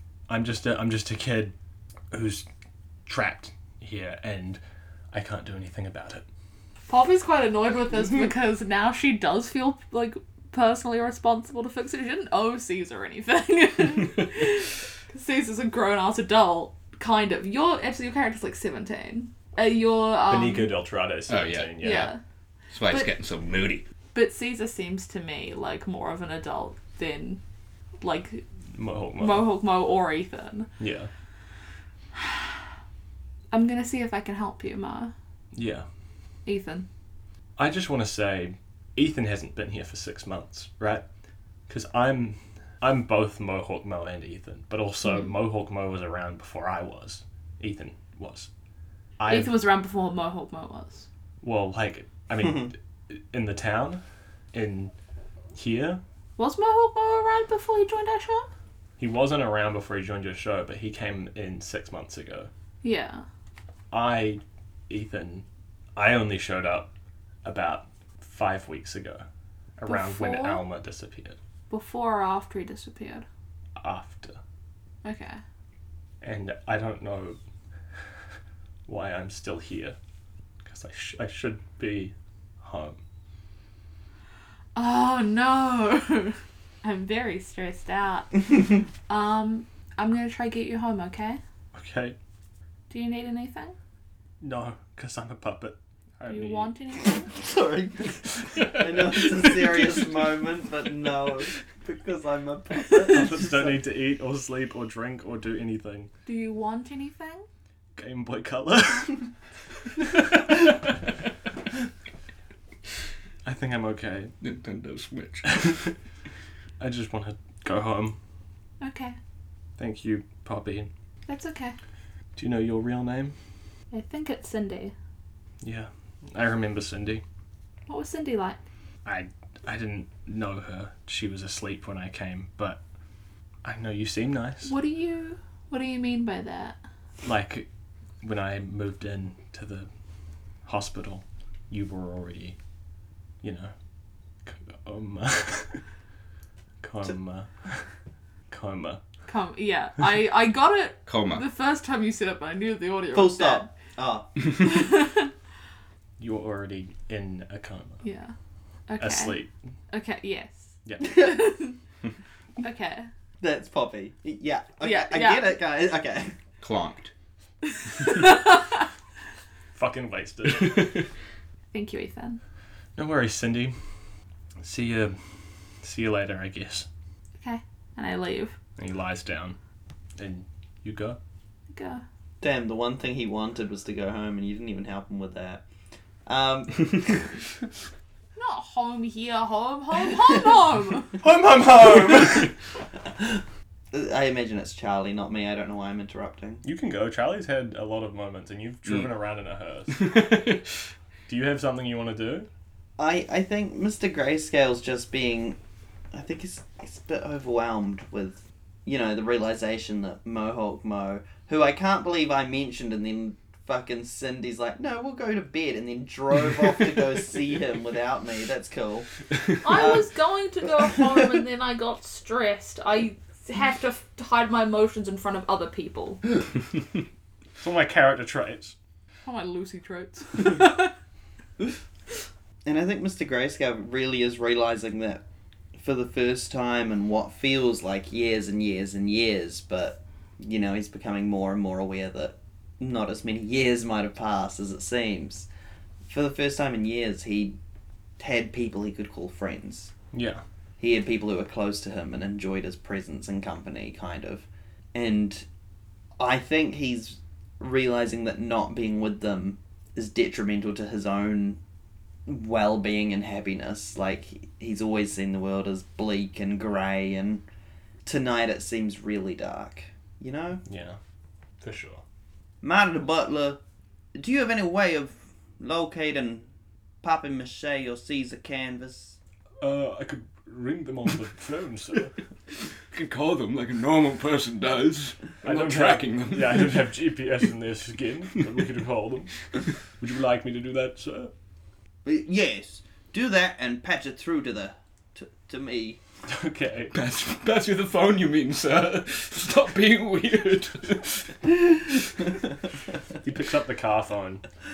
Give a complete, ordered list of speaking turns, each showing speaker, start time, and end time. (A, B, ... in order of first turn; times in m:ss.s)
0:00.3-0:01.5 A
0:02.1-0:02.4 A
0:03.1-0:04.6 A
0:05.1-0:06.2 A
0:06.9-0:20.7 B
0:20.3-0:22.1 A
0:21.3-0:22.1 C
0:21.8-0:22.2 B
0:22.7-0:23.8 C
0:24.1-0:27.4 B
0:28.0-0:28.4 B
0:28.7-0:29.5 A
0:29.2-0:30.7 B
0:30.8-0:31.1 A
0:33.5-0:35.1 B
0:35.5-0:35.9 A
0:36.5-0:36.9 B
0:37.6-0:41.0 A
0:41.7-0:48.5 A
0:49.2-0:49.6 A
0:49.3-0:51.1 B
0:51.4-0:54.0 A
0:54.5-0:54.9 A
0:55.6-0:56.0 A
0:56.4-0:58.5 B
0:59.0-1:02.5 A
1:02.8-1:03.2 B
1:03.9-1:05.4 A
1:06.0-1:06.9 A
1:07.4-1:09.2 A
1:09.8-1:11.4 A
1:09.9-1:10.6 B
1:11.7-1:13.3 B
1:13.8-1:14.4 A
1:15.0-1:15.4 B
1:16.2-1:17.4 A
1:18.9-1:20.0 A
1:20.6-1:23.0 A
1:24.8-1:31.4 B
1:31.7-1:32.2 A
1:32.9-1:33.8 B
1:34.4-1:36.7 A
1:36.3-1:37.3 B
1:37.2-1:43.8 D
1:43.1-1:46.1 A
1:46.3-1:47.5 B
1:48.0-1:49.3 A
1:50.0-1:50.9 A
1:53.4-1:54.3 A
1:54.4-1:55.8 C
1:55.5-1:55.9 A
1:56.8-1:58.2 A
1:58.8-1:59.2 B
1:59.8-2:00.9 A
2:01.3-2:01.8 B
2:02.4-2:03.4 A
2:03.9-2:04.9 B
2:05.6-2:07.2 A
2:07.9-2:08.6 B
2:09.0-2:12.8 A
2:13.6-2:14.7 A
2:14.6-2:16.8 B
2:17.2-2:17.7 A
2:18.2-2:19.9 A
2:20.6-2:22.6 A
2:23.4-2:23.7 A
2:24.4-2:25.8 A
2:26.8-2:27.9 A
2:28.5-2:29.0 A
2:29.3-2:33.7 B
2:31.1-2:31.4 C
2:33.1-2:34.7 D
2:34.6-2:35.3 B
2:36.2-2:38.0 A
2:38.0-2:38.3 B
2:38.9-2:39.4 B
2:39.0-2:39.5 A
2:39.9-2:41.8 B
2:40.9-2:41.2 A
2:42.6-2:43.1 B
2:43.4-2:46.4 D
2:44.8-2:45.6 B
2:46.6-2:47.1 C
2:47.9-2:48.7 B
2:49.7-2:51.0 A
2:50.6-2:50.9 C
2:51.7-2:52.4 B
2:53.0-2:53.8 A
2:54.6-2:55.2 A
2:55.8-2:56.9 A
2:57.4-2:58.6 B
2:58.8-2:59.6 A
3:00.2-3:01.2 A
3:01.7-3:02.0 B
3:02.4-3:05.6 D
3:06.3-3:07.5 D
3:08.4-3:11.1 B
3:11.2-3:12.5 A
3:13.9-3:16.6 D
3:16.6-3:20.6 A
3:20.0-3:20.6 C
3:21.3-3:22.5 A
3:23.0-3:25.6 D
3:26.1-3:40.1 D
3:39.6-3:46.2 B
3:47.6-3:48.8 A
3:49.2-3:50.9 B
3:52.6-3:55.2 D
3:55.8-4:05.5 D
4:06.1-4:07.6 D
4:08.2-4:09.9 D
4:10.1-4:10.4 A
4:10.8-4:15.5 D
4:16.2-4:21.6 D
4:22.3-4:27.4 D
4:28.0-4:30.6 D
4:30.7-4:31.0 A
4:31.6-4:32.0 A
4:32.6-4:33.6 D
4:34.2-4:36.5 D
4:37.0-4:39.2 D
4:39.6-4:42.2 A
4:42.9-4:47.0 C
4:45.4-4:51.3 A
4:52.0-4:56.0 D
4:56.3-4:56.9 A
4:56.9-5:01.4 C
5:03.2-5:04.4 A